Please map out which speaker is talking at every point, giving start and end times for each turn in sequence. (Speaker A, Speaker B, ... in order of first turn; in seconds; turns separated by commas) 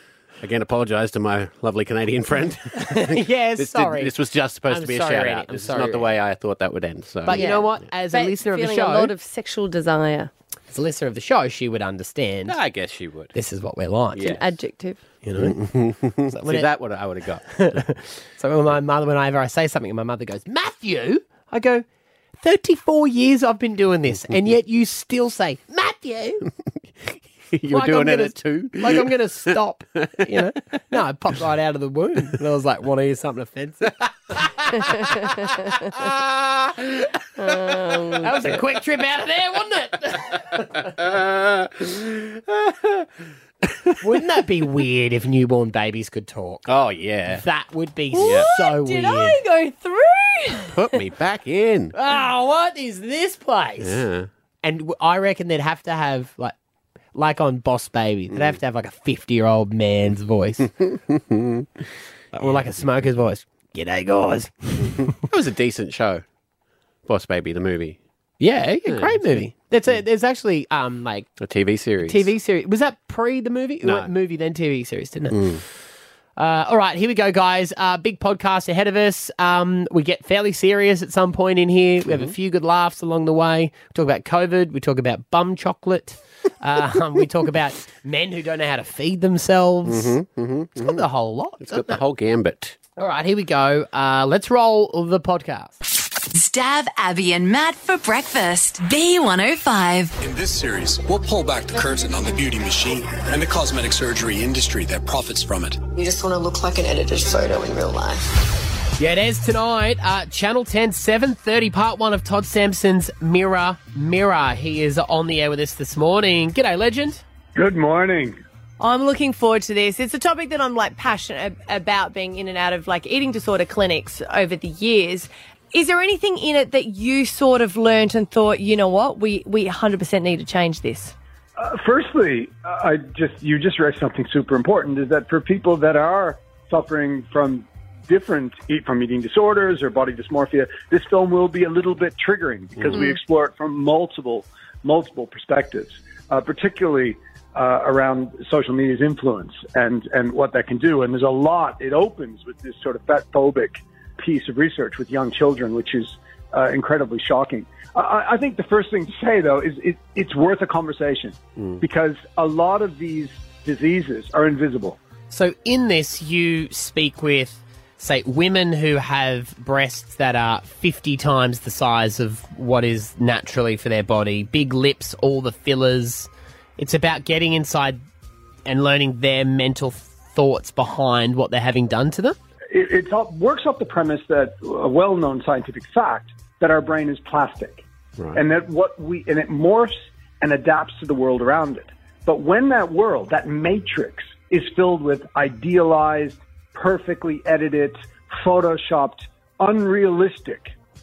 Speaker A: 0.4-7.6, Speaker B: 2.7-4.1, Speaker B: 4.7-6.1, Speaker B: 7.2-9.1, Speaker C: 7.3-10.3, Speaker B: 10.7-12.6, Speaker A: 12.5-13.3, Speaker B: 13.3-14.4, Speaker A: 14.1-14.4, Speaker C: 14.2-15.0, Speaker B: 15.2-15.6, Speaker A: 15.4-17.8, Speaker B: 16.3-16.7, Speaker B: 17.5-21.8, Speaker B: 22.4-26.4, Speaker A: 27.5-29.1, Speaker B: 27.7-35.7, Speaker A: 30.0-30.2, Speaker C: 37.4-38.5, Speaker B: 38.2-40.9, Speaker A: 40.9-43.0, Speaker B: 44.0-46.7, Speaker A: 46.7-47.4, Speaker B: 47.3-49.4, Speaker C: 48.1-51.0, Speaker A: 48.2-48.5, Speaker A: 50.7-51.9, Speaker B: 51.9-54.0, Speaker A: 53.8-54.3, Speaker B: 54.6-56.5, Speaker B: 57.1-60.7, Speaker A: 58.3-58.6, Speaker A: 60.8-61.6, Speaker B: 62.4-65.1, Speaker A: 65.0-66.2, Speaker A: 67.0-68.0, Speaker B: 68.4-71.3, Speaker A: 68.9-69.9, Speaker A: 71.4-72.3, Speaker B: 72.0-75.5, Speaker A: 73.8-74.1, Speaker A: 75.3-75.6, Speaker B: 76.4-90.2, Speaker A: 89.8-91.0, Speaker B: 90.8-92.0, Speaker A: 91.6-92.8, Speaker B: 93.0-95.8, Speaker D: 96.3-100.2, Speaker E: 100.2-105.8, Speaker F: 105.9-108.3, Speaker B: 109.0-117.2, Speaker G: 117.5-118.4, Speaker C: 118.8-131.1, Speaker G: 131.6-165.0, Speaker A: 142.7-143.1, Speaker A: 161.6-161.8, Speaker B: 165.3-178.0, Speaker B: 178.7-182.3, Speaker G: 182.7-200.7